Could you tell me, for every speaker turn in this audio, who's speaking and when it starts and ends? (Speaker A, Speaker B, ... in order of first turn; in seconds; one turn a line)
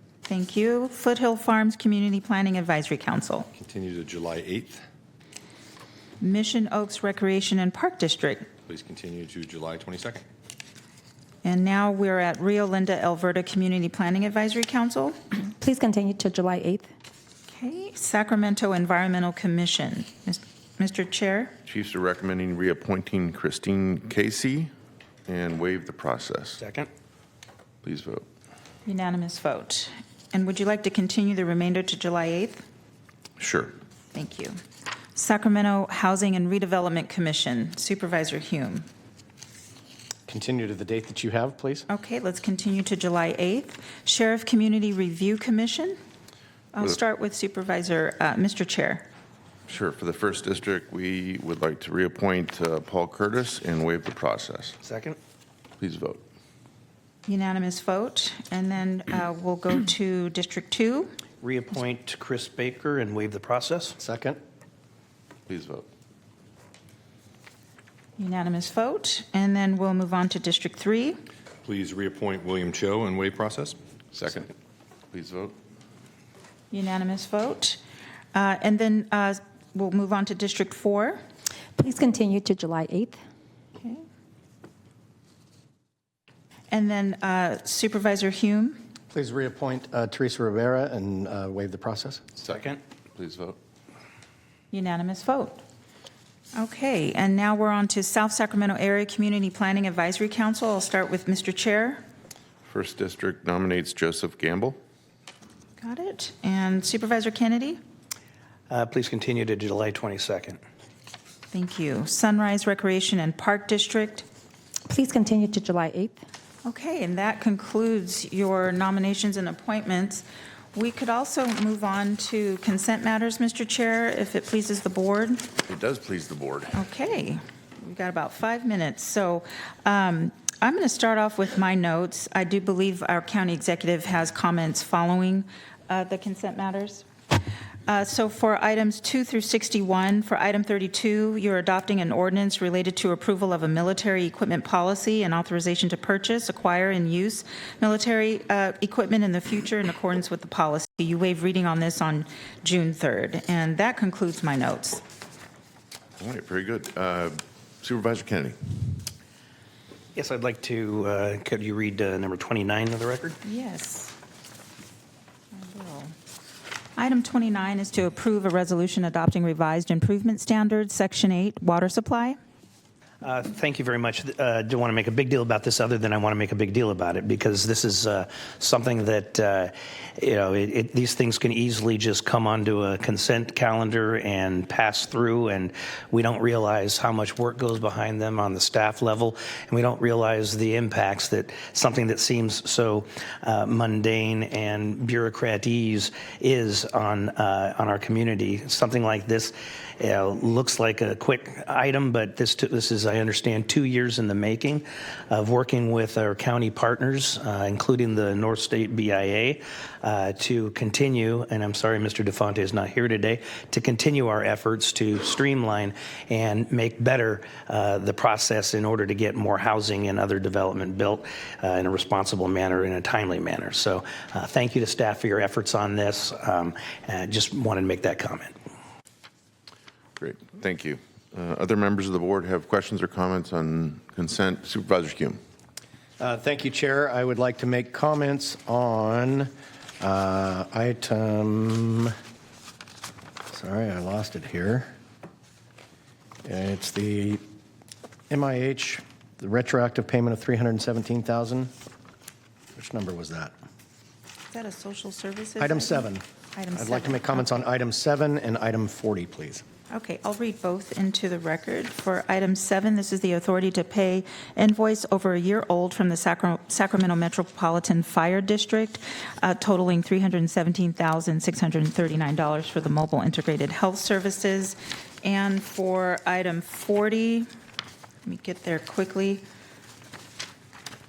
Speaker A: 0.3-3.5
Speaker B: 3.5-4.8
Speaker A: 6.2-8.4
Speaker B: 8.7-10.2
Speaker A: 11.4-15.2
Speaker C: 15.6-16.9
Speaker A: 17.5-21.5
Speaker D: 21.6-24.7
Speaker D: 25.3-26.6
Speaker E: 26.6-26.9
Speaker D: 27.8-28.2
Speaker A: 28.9-32.6
Speaker D: 33.4-33.7
Speaker A: 34.1-34.6
Speaker A: 35.1-38.9
Speaker F: 40.3-41.9
Speaker A: 41.9-46.0
Speaker A: 46.7-49.0
Speaker D: 49.7-54.8
Speaker E: 54.8-55.2
Speaker D: 55.8-56.2
Speaker A: 57.3-61.1
Speaker E: 61.4-64.0
Speaker F: 64.0-64.4
Speaker D: 65.5-65.8
Speaker A: 68.2-71.2
Speaker B: 71.6-73.8
Speaker D: 74.1-74.5
Speaker D: 75.1-75.5
Speaker A: 76.7-77.8
Speaker A: 78.3-81.2
Speaker C: 81.8-83.2
Speaker A: 83.8-84.0
Speaker A: 86.7-88.8
Speaker F: 89.1-92.2
Speaker D: 92.4-93.6
Speaker E: 92.5-92.8
Speaker A: 94.7-95.6
Speaker A: 96.5-102.0
Speaker D: 102.6-104.8
Speaker A: 105.8-107.8
Speaker E: 108.7-110.6
Speaker A: 111.5-114.2
Speaker C: 114.9-116.2
Speaker A: 116.6-125.5
Speaker D: 125.7-126.8
Speaker A: 126.7-137.1
Speaker A: 137.9-155.0
Speaker D: 156.2-159.0
Speaker E: 160.1-163.4
Speaker A: 163.4-164.1
Speaker A: 165.5-166.1
Speaker A: 166.9-172.4
Speaker E: 173.2-228.5
Speaker D: 230.2-235.4
Speaker F: 236.2-242.1
Speaker F: 243.5-244.9
Speaker F: 246.4-247.4
Speaker F: 248.3-251.7
Speaker F: 252.8-253.5
Speaker A: 254.5-257.5
Speaker F: 255.6-256.2
Speaker F: 256.7-259.6
Speaker A: 259.9-277.5
Speaker A: 278.2-279.4